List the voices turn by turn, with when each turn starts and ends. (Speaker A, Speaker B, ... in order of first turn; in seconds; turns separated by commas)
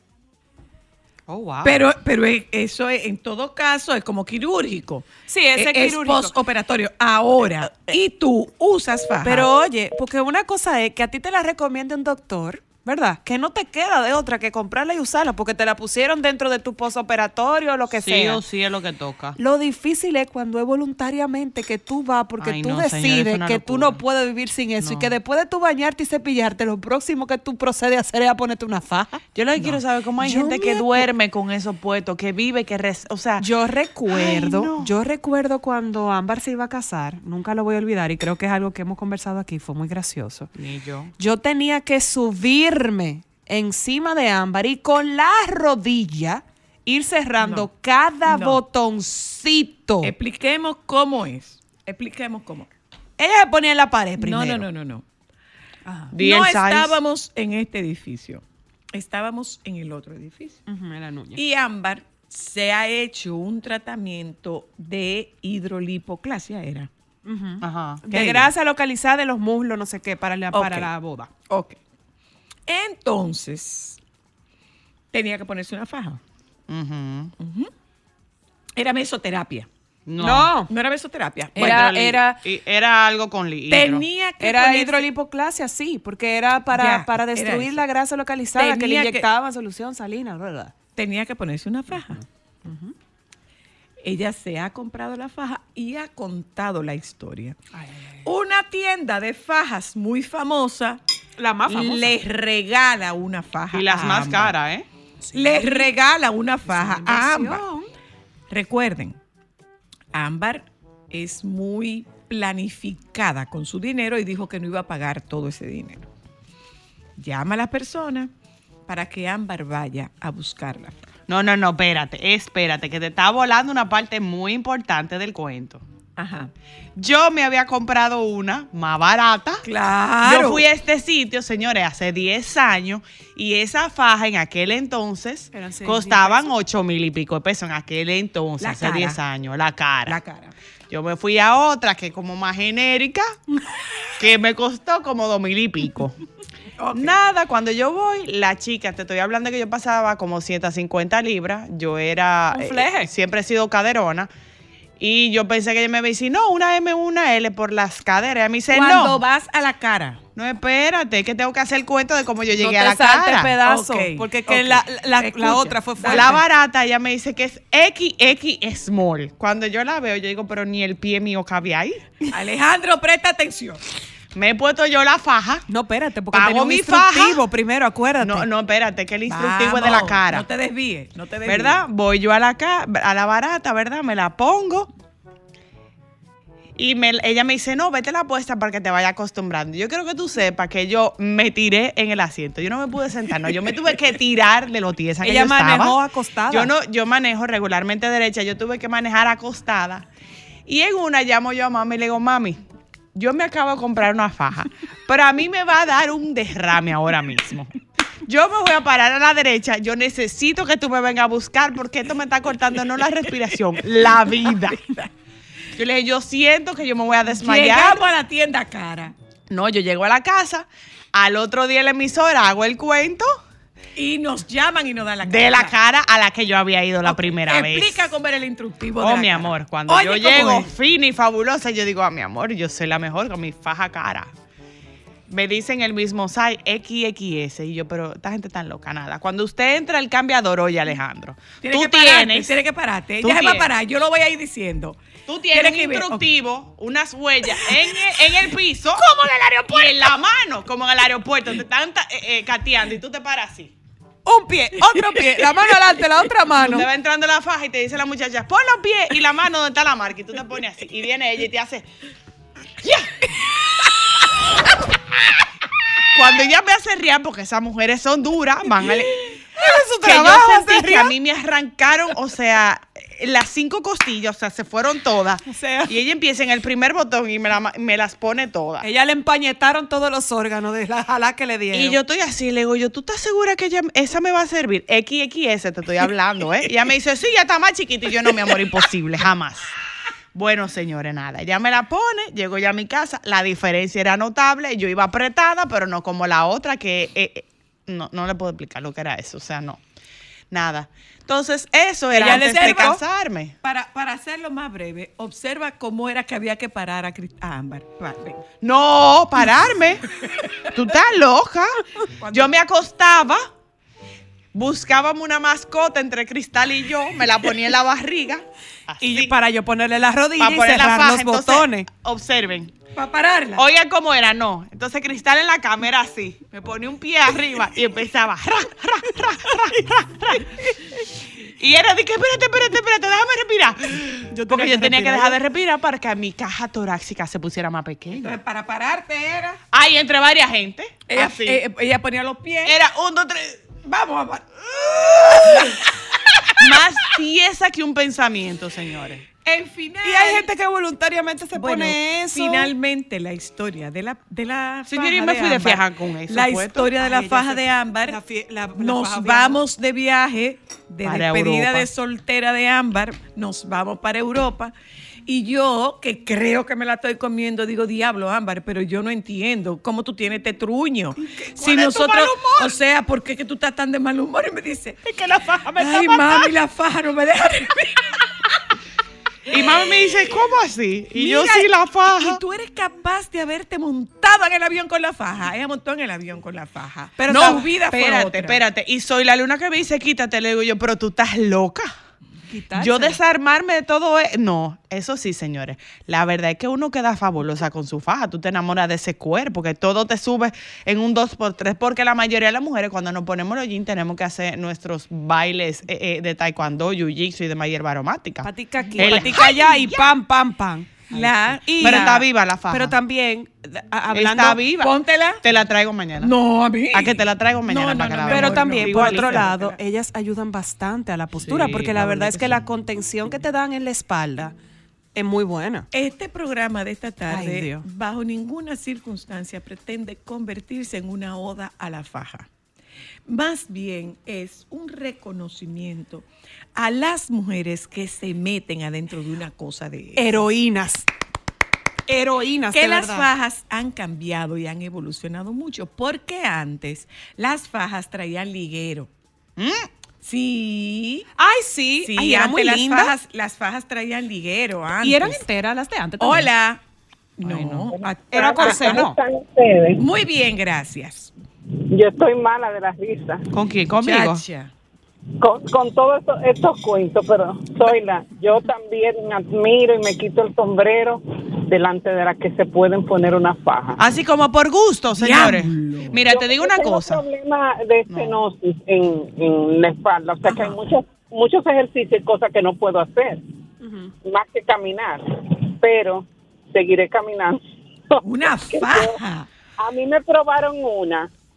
Speaker A: 1.3-1.8, Speaker B: 1.6-9.5, Speaker A: 5.3-6.4, Speaker A: 9.2-18.4, Speaker C: 17.9-19.4, Speaker A: 19.4-29.2, Speaker C: 22.4-24.0, Speaker C: 24.8-25.1, Speaker C: 29.3-33.5, Speaker A: 30.2-31.1, Speaker A: 33.4-40.5, Speaker C: 34.1-34.9, Speaker C: 40.6-41.1, Speaker A: 41.2-50.1, Speaker B: 47.4-47.7, Speaker B: 48.2-48.6, Speaker B: 50.0-52.7, Speaker A: 53.2-54.6, Speaker B: 54.2-55.0, Speaker A: 55.9-56.1, Speaker C: 56.1-57.0, Speaker B: 56.1-60.6, Speaker A: 60.7-61.4, Speaker B: 61.4-66.9, Speaker A: 67.2-71.3, Speaker C: 67.6-68.2, Speaker B: 68.1-68.5, Speaker B: 70.5-70.9, Speaker B: 71.5-71.8, Speaker B: 72.7-74.0, Speaker B: 75.1-76.2, Speaker C: 76.7-77.3, Speaker B: 77.4-77.7, Speaker B: 78.8-79.7, Speaker C: 80.1-80.5, Speaker A: 80.2-80.7, Speaker B: 80.7-81.9, Speaker A: 81.6-82.4, Speaker C: 81.6-84.1, Speaker B: 83.7-85.1, Speaker A: 84.4-90.7, Speaker B: 86.7-87.8, Speaker B: 88.5-89.2, Speaker B: 91.0-92.2, Speaker A: 92.0-92.9, Speaker B: 94.0-97.6, Speaker A: 97.7-98.2, Speaker B: 98.2-101.0, Speaker A: 101.4-102.1, Speaker B: 101.7-104.5, Speaker C: 103.7-104.9, Speaker A: 105.2-105.8, Speaker B: 105.3-107.6, Speaker A: 106.7-107.9, Speaker B: 108.5-109.2, Speaker B: 110.1-116.1, Speaker B: 117.2-118.3, Speaker B: 118.9-121.1, Speaker C: 121.3-125.8, Speaker B: 126.2-126.5, Speaker C: 127.0-129.7, Speaker B: 129.6-130.6, Speaker C: 130.2-140.2, Speaker A: 135.5-136.5, Speaker B: 138.6-139.2, Speaker B: 140.1-140.5, Speaker C: 140.9-143.3, Speaker C: 144.2-146.2, Speaker B: 146.8-147.2, Speaker C: 146.9-154.3, Speaker A: 152.5-153.1, Speaker C: 155.0-159.2, Speaker B: 158.7-160.2, Speaker C: 160.3-163.5, Speaker A: 162.6-166.4, Speaker B: 163.6-166.4, Speaker C: 166.1-172.0, Speaker B: 172.3-173.8, Speaker C: 174.3-175.7, Speaker A: 175.7-178.5, Speaker C: 176.3-177.4, Speaker C: 178.2-180.5, Speaker B: 179.3-181.8, Speaker C: 181.4-184.9, Speaker C: 186.8-196.0, Speaker A: 195.2-196.7, Speaker C: 196.5-200.1, Speaker C: 200.7-202.6, Speaker C: 203.1-207.7, Speaker C: 208.2-214.8, Speaker B: 213.4-215.1, Speaker C: 215.8-218.0, Speaker B: 217.3-219.1, Speaker C: 219.5-223.4, Speaker B: 223.9-225.8, Speaker C: 225.2-228.1, Speaker B: 227.0-230.7, Speaker C: 229.0-234.3, Speaker C: 235.3-242.6, Speaker B: 241.6-245.0, Speaker C: 243.2-243.7, Speaker C: 245.3-249.0, Speaker B: 245.5-246.3, Speaker B: 247.5-248.1, Speaker A: 249.2-249.7, Speaker C: 249.7-253.7, Speaker A: 254.2-256.9, Speaker B: 254.8-255.4, Speaker C: 256.6-261.9, Speaker C: 266.1-269.1, Speaker A: 269.6-271.1, Speaker C: 270.0-278.9, Speaker A: 275.5-275.9, Speaker A: 278.8-282.0, Speaker C: 281.7-289.7, Speaker C: 290.3-299.8, Speaker C: 300.5-303.5, Speaker A: 302.1-303.0, Speaker B: 302.1-303.0, Speaker B: 303.6-308.4, Speaker C: 308.6-310.1, Speaker C: 310.7-313.4, Speaker B: 312.2-312.6, Speaker C: 314.5-319.4, Speaker A: 319.0-321.9, Speaker C: 320.4-322.7, Speaker B: 322.9-323.6, Speaker C: 323.6-330.8, Speaker C: 331.6-338.3, Speaker A: 334.5-335.3, Speaker B: 334.5-335.3, Speaker B: 338.2-339.6, Speaker C: 339.7-341.6, Speaker B: 341.1-342.8, Speaker C: 342.6-343.6, Speaker B: 343.8-345.8, Speaker B: 346.4-346.8, Speaker C: 346.6-349.2, Speaker B: 349.4-350.4, Speaker A: 350.0-352.7, Speaker B: 351.5-358.2, Speaker C: 354.9-356.9, Speaker A: 356.9-359.6, Speaker B: 358.8-364.7, Speaker C: 361.0-361.9, Speaker B: 365.3-375.0, Speaker C: 371.6-372.2, Speaker A: 371.8-372.5, Speaker C: 375.1-376.3, Speaker B: 375.7-378.1, Speaker C: 379.5-382.4, Speaker B: 379.5-380.2, Speaker B: 381.1-388.6, Speaker A: 387.2-387.8, Speaker C: 387.3-391.9, Speaker A: 392.5-393.2, Speaker C: 392.7-409.5, Speaker A: 408.4-414.7, Speaker B: 408.8-410.1, Speaker B: 411.1-412.2, Speaker C: 411.1-413.0, Speaker C: 414.1-416.3, Speaker B: 414.8-415.4, Speaker B: 416.2-419.8, Speaker C: 416.9-419.6, Speaker A: 418.3-424.6, Speaker C: 421.4-422.6, Speaker A: 425.1-425.9, Speaker B: 425.9-432.5, Speaker A: 427.3-427.9, Speaker B: 433.3-440.4, Speaker A: 440.1-441.1, Speaker A: 442.1-443.3, Speaker B: 442.7-449.1, Speaker C: 449.6-449.9, Speaker B: 450.2-451.3, Speaker A: 451.4-453.1, Speaker B: 452.0-455.4, Speaker A: 455.0-456.5, Speaker B: 456.2-456.8, Speaker B: 457.4-459.1, Speaker A: 457.5-459.2, Speaker D: 458.3-460.0, Speaker B: 460.0-461.3, Speaker D: 461.9-463.4, Speaker C: 463.5-464.4, Speaker B: 464.0-464.7, Speaker D: 465.4-474.0, Speaker C: 474.0-477.2, Speaker B: 475.1-476.2, Speaker D: 476.2-483.4, Speaker C: 478.1-478.4, Speaker A: 483.8-484.1, Speaker D: 484.2-489.2, Speaker B: 488.2-489.5, Speaker D: 489.8-491.3